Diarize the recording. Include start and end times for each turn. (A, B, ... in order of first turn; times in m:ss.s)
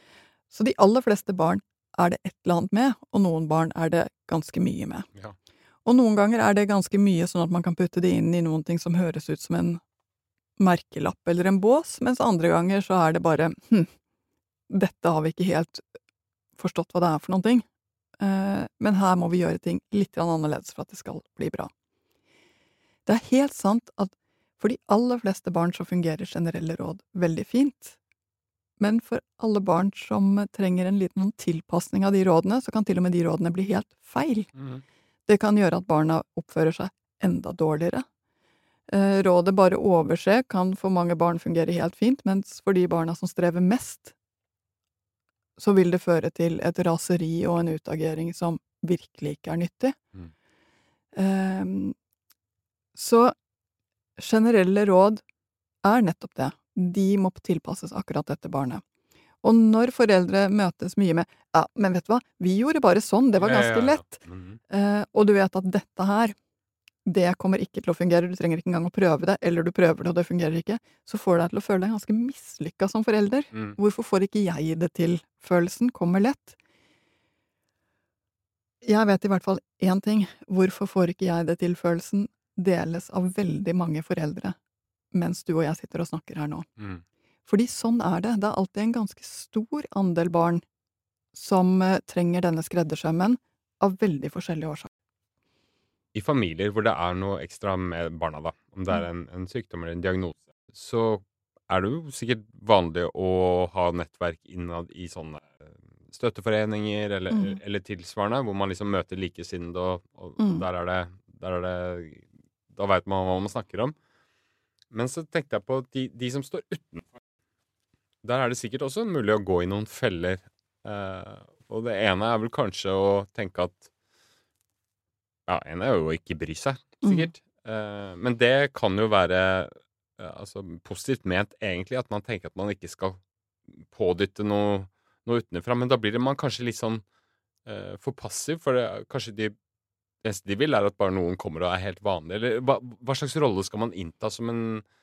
0:00.5-0:05.1 A
0:05.8-0:09.8 A
0:10.6-0:13.9 A
0:14.7-0:15.8 A
0:16.6-0:17.6 A
0:18.2-0:21.7 A
0:23.1-0:28.0 A
0:28.8-0:34.5 A
0:34.6-0:34.8 B
0:35.3-0:38.0 A
0:38.9-0:44.1 A
0:45.6-0:50.0 A
0:51.1-0:52.0 A
0:53.0-0:53.3 A
0:54.2-0:55.2 A
0:55.8-0:58.8 A
0:59.4-1:06.4 A
1:03.4-1:04.6 B
1:07.1-1:16.6 A
1:18.8-1:24.6 A
1:25.1-1:26.7 A
1:26.8-1:27.0 B
1:27.5-1:30.6 A
1:31.3-1:34.9 A
1:36.1-1:54.0 B
1:47.3-1:47.6 A
1:50.4-1:50.6 A
1:54.9-1:57.0 B
1:58.2-2:03.9 B
2:05.5-2:13.2 B
2:07.0-2:07.3 A
2:13.8-2:17.0 B
2:17.7-2:19.5 B
2:20.2-2:24.8 B